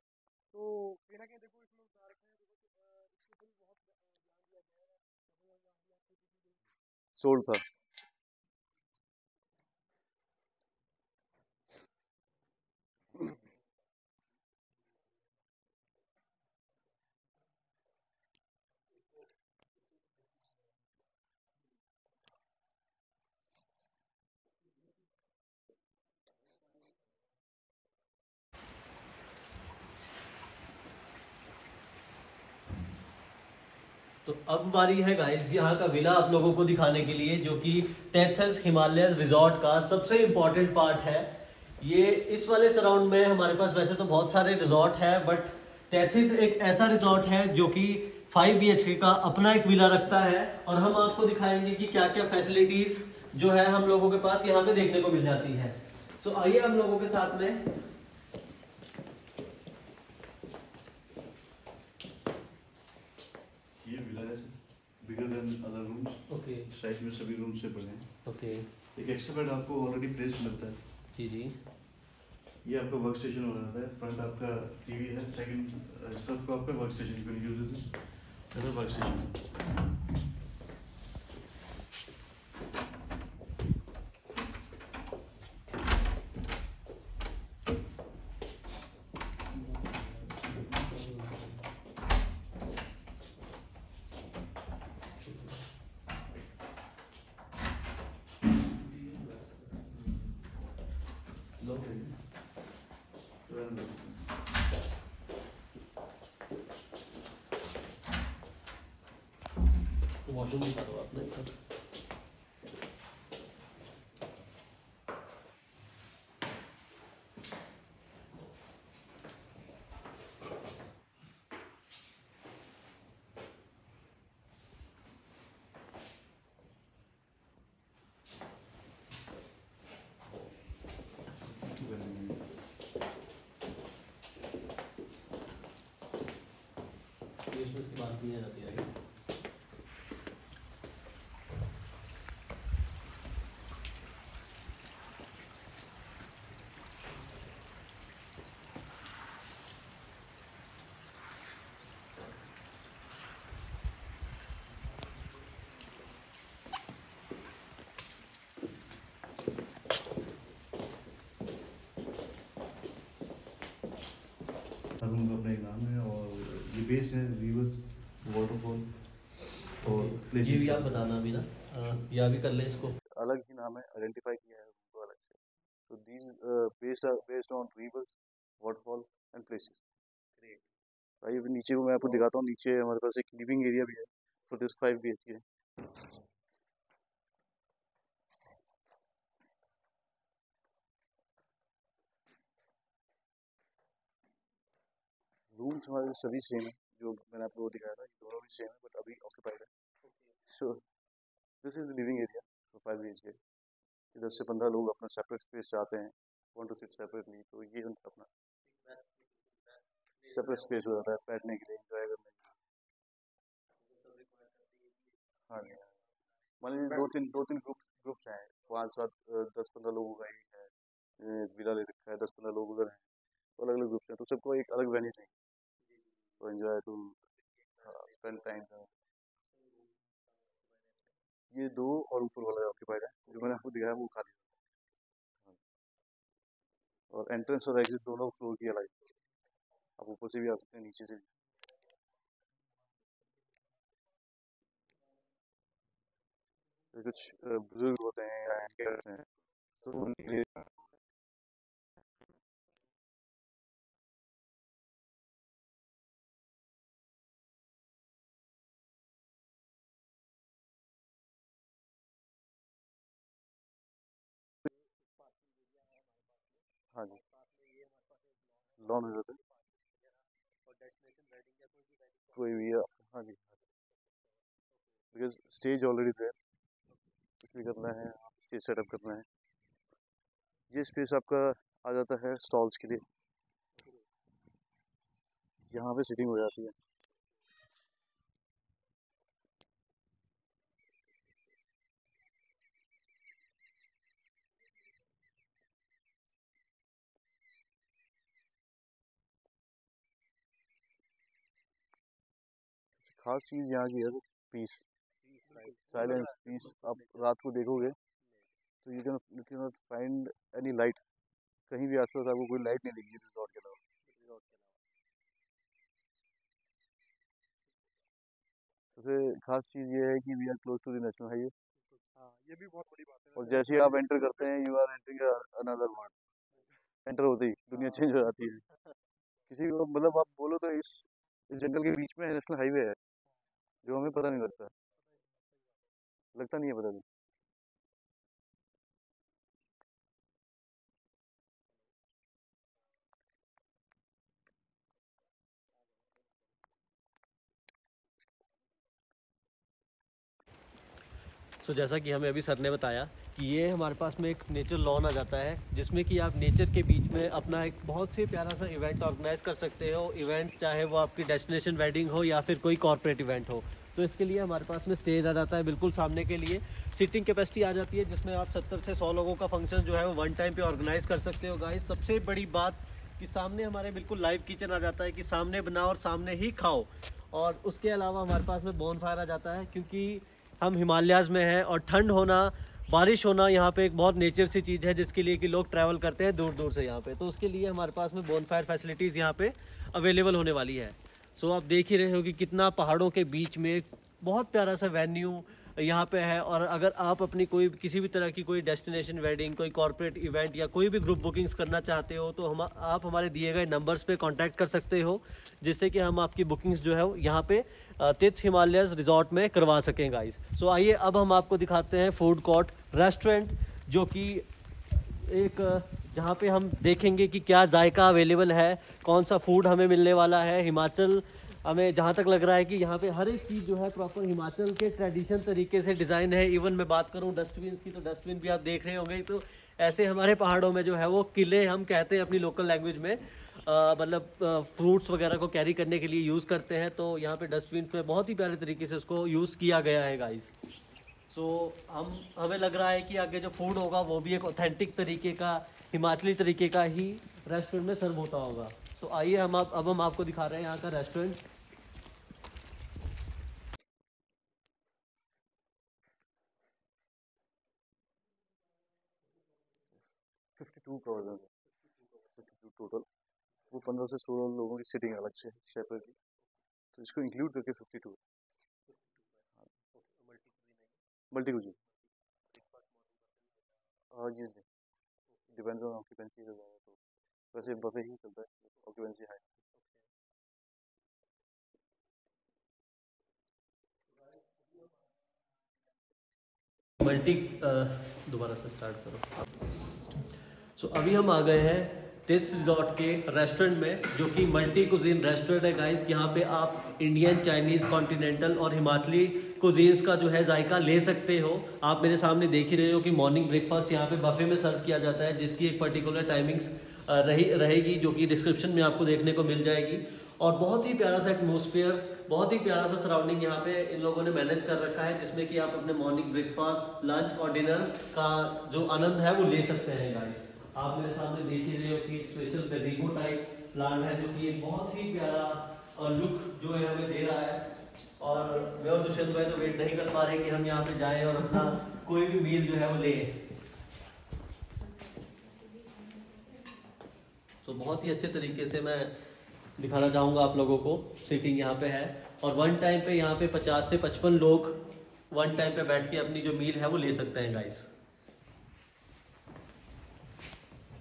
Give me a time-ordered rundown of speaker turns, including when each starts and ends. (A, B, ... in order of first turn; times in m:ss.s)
0:00.5-0:06.4 A
0:07.1-0:07.6 B
0:34.2-0:57.6 C
1:03.8-1:10.8 B
1:06.3-1:06.6 C
1:08.2-1:08.7 C
1:11.1-1:11.6 C
1:12.6-1:19.5 B
1:30.6-1:31.5 B
1:35.2-1:35.5 B
1:39.0-1:40.5 B
1:41.6-1:42.8 B
1:43.4-1:44.4 B
1:50.2-1:51.5 C
2:11.4-2:12.5 B
2:17.5-2:18.9 C
2:45.0-2:50.9 B
2:49.8-2:53.0 C
2:53.0-2:59.8 B
3:01.2-3:05.4 B
3:15.5-3:19.7 B
3:20.5-3:20.8 B
3:21.6-3:23.4 B
3:24.1-3:28.3 B
3:28.8-3:30.8 C
3:30.3-3:32.6 B
3:33.8-3:35.7 C
3:35.5-3:35.9 B
3:36.6-3:43.0 B
3:43.6-3:45.3 B
3:46.4-3:47.2 B
3:47.8-3:48.9 B
3:51.5-3:54.6 B
3:57.1-3:59.1 B
4:00.0-4:01.3 B
4:06.9-4:09.3 B
4:09.8-4:10.9 B
4:26.9-4:27.2 B
4:28.8-4:29.4 B
4:30.7-4:31.9 C
4:32.3-4:33.5 B
4:35.1-4:36.4 B
4:37.4-4:39.2 B
4:40.7-4:43.0 B
4:45.7-4:46.7 B
5:03.0-5:04.8 B
5:05.5-5:06.3 C
5:05.9-5:08.0 B
5:08.8-5:11.0 B
5:11.7-5:13.8 B
5:14.1-5:14.7 C
5:19.0-5:21.5 B
5:22.2-5:24.1 A
5:23.4-5:26.1 B
5:27.0-5:28.6 B
5:29.5-5:33.0 B
5:33.8-5:34.7 B
5:36.3-5:37.0 B
5:51.6-7:20.5 C
7:21.3-7:31.4 C
7:40.5-7:41.5 B
7:42.4-7:43.0 B
7:43.7-7:46.2 B
7:46.9-7:48.2 B
7:49.9-7:50.8 C
7:51.3-7:51.8 B
7:52.6-7:52.9 C
7:54.1-7:54.6 B
7:55.5-7:57.0 B
7:57.5-7:59.4 B
8:07.0-8:09.4 C
8:10.8-8:47.6 C
8:48.2-8:53.3 C
8:57.6-8:59.1 C
8:59.8-9:04.8 C
9:05.3-9:07.9 C